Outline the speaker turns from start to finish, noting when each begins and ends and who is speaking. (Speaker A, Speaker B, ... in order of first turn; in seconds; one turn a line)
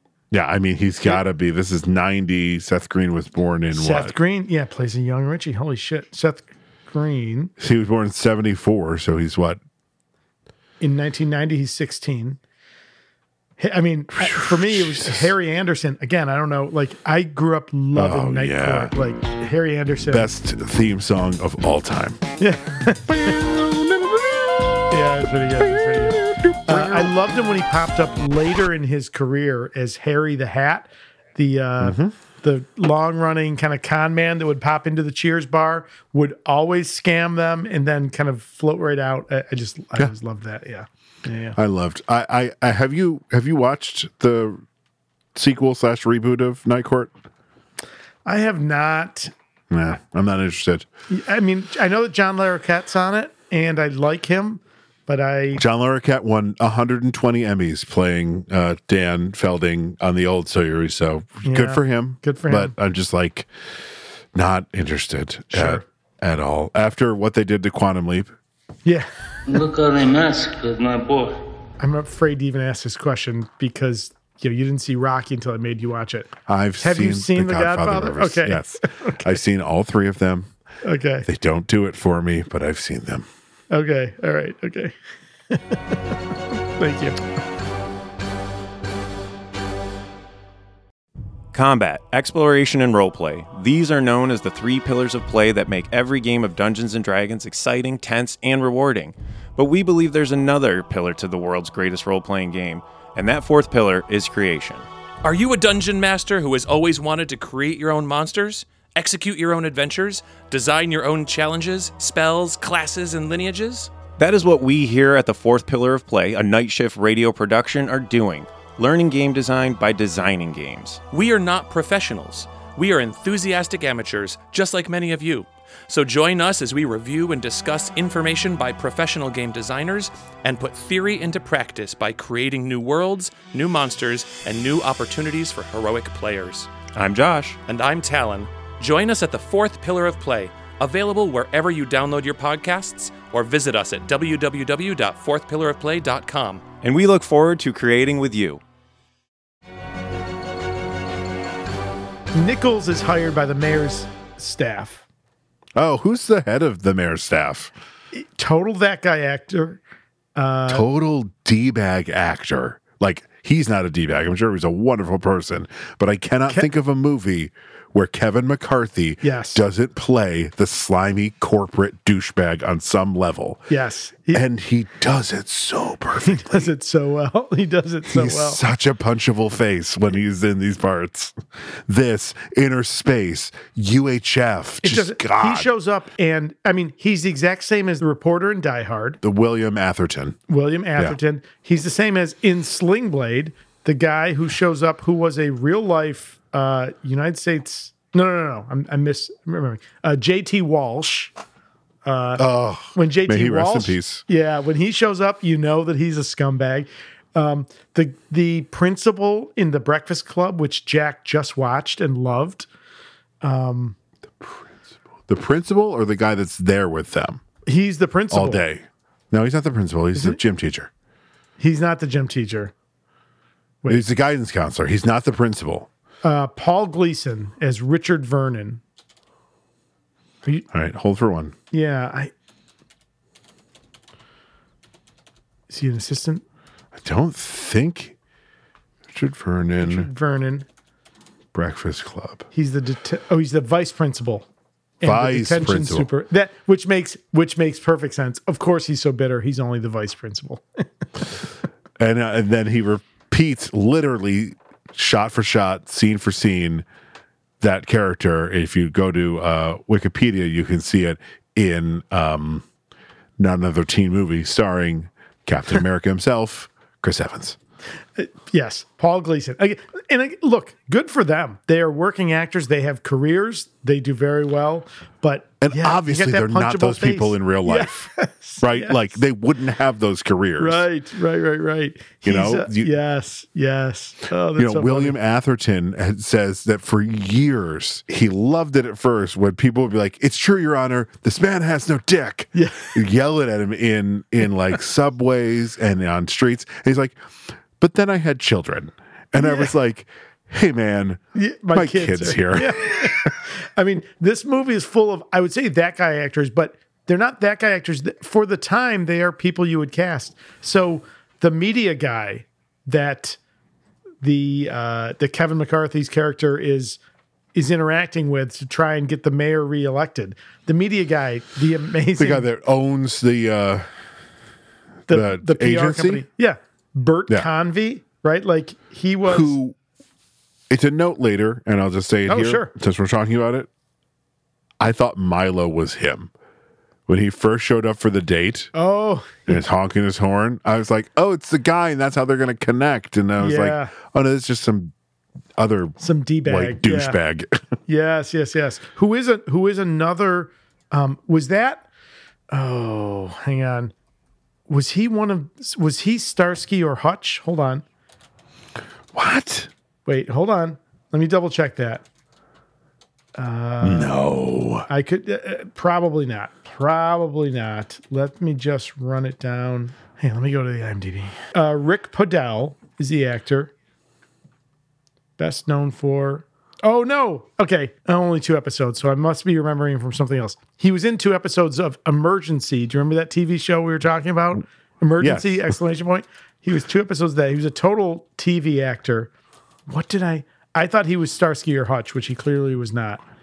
Speaker A: 0.3-4.1
Speaker B: 3.7-7.5
Speaker A: 7.6-9.6
Speaker B: 10.8-12.4
Speaker B: 13.6-20.3
Speaker A: 14.1-15.3
Speaker A: 17.9-18.9
Speaker A: 20.1-22.2
Speaker B: 22.4-23.4
Speaker A: 23.1-25.0
Speaker B: 24.9-41.6
Speaker A: 25.6-27.1
Speaker A: 31.8-32.1
Speaker A: 41.5-44.6
Speaker A: 45.3-47.1
Speaker B: 48.2-49.3
Speaker A: 49.7-50.9
Speaker B: 51.1-55.6
Speaker A: 55.5-63.5
Speaker B: 61.4-62.7
Speaker A: 64.3-68.3
Speaker B: 65.5-65.8
Speaker C: 69.5-71.4
Speaker B: 71.8-79.2
Speaker A: 76.5-80.5
Speaker B: 80.8-81.2
Speaker A: 81.2-83.3
Speaker B: 83.7-84.9
Speaker B: 85.5-86.0
Speaker B: 86.8-87.2
Speaker D: 91.5-104.9
Speaker E: 105.2-113.9
Speaker D: 114.2-121.0
Speaker E: 121.1-136.7
Speaker D: 136.9-137.6
Speaker E: 137.6-146.6
Speaker D: 146.8-148.6
Speaker B: 152.3-155.0
Speaker A: 155.8-157.7
Speaker B: 158.1-159.8
Speaker B: 160.3-160.8
Speaker A: 160.7-173.7
Speaker B: 169.2-169.6
Speaker B: 173.7-174.4
Speaker A: 174.3-176.7
Speaker B: 176.2-178.6
Speaker A: 178.1-181.3
Speaker A: 181.9-185.7
Speaker B: 184.8-189.2
Speaker A: 189.2-190.4
Speaker B: 190.5-201.3
Speaker B: 202.0-212.7
Speaker A: 202.4-204.2
Speaker B: 213.4-213.9
Speaker A: 214.4-217.4
Speaker B: 217.7-218.6
Speaker A: 218.3-220.9
Speaker B: 221.6-222.7
Speaker A: 223.9-225.9
Speaker B: 226.2-228.8
Speaker A: 230.7-231.5
Speaker B: 231.7-232.3
Speaker B: 235.7-236.4
Speaker A: 236.9-238.1
Speaker A: 239.1-240.1
Speaker B: 239.8-240.7
Speaker A: 241.5-242.5
Speaker B: 242.5-244.4
Speaker B: 245.0-250.6
Speaker A: 245.0-246.1
Speaker A: 252.0-256.9
Speaker A: 257.6-262.6
Speaker A: 263.4-267.6
Speaker B: 268.2-279.2
Speaker A: 275.6-280.8
Speaker B: 280.6-285.1
Speaker A: 282.2-282.9
Speaker A: 284.6-297.2
Speaker B: 292.5-292.9
Speaker A: 297.8-303.3
Speaker B: 299.4-299.7
Speaker B: 301.3-313.4
Speaker B: 314.2-317.0
Speaker B: 317.5-322.5
Speaker A: 322.2-323.9
Speaker A: 325.1-326.2
Speaker B: 325.1-329.5
Speaker A: 329.3-329.8
Speaker A: 330.7-333.7
Speaker B: 332.3-332.7
Speaker A: 334.8-336.3
Speaker A: 337.1-338.7
Speaker B: 338.7-339.6
Speaker A: 339.5-344.9
Speaker B: 343.4-343.9
Speaker A: 345.6-347.6
Speaker B: 346.0-347.2
Speaker B: 347.9-351.8
Speaker B: 352.5-353.9
Speaker B: 354.7-357.8
Speaker A: 359.1-359.7
Speaker B: 360.1-362.0
Speaker B: 363.4-364.2
Speaker A: 363.8-364.9
Speaker B: 364.9-373.7
Speaker B: 375.4-389.3
Speaker A: 385.2-385.7
Speaker B: 389.9-393.2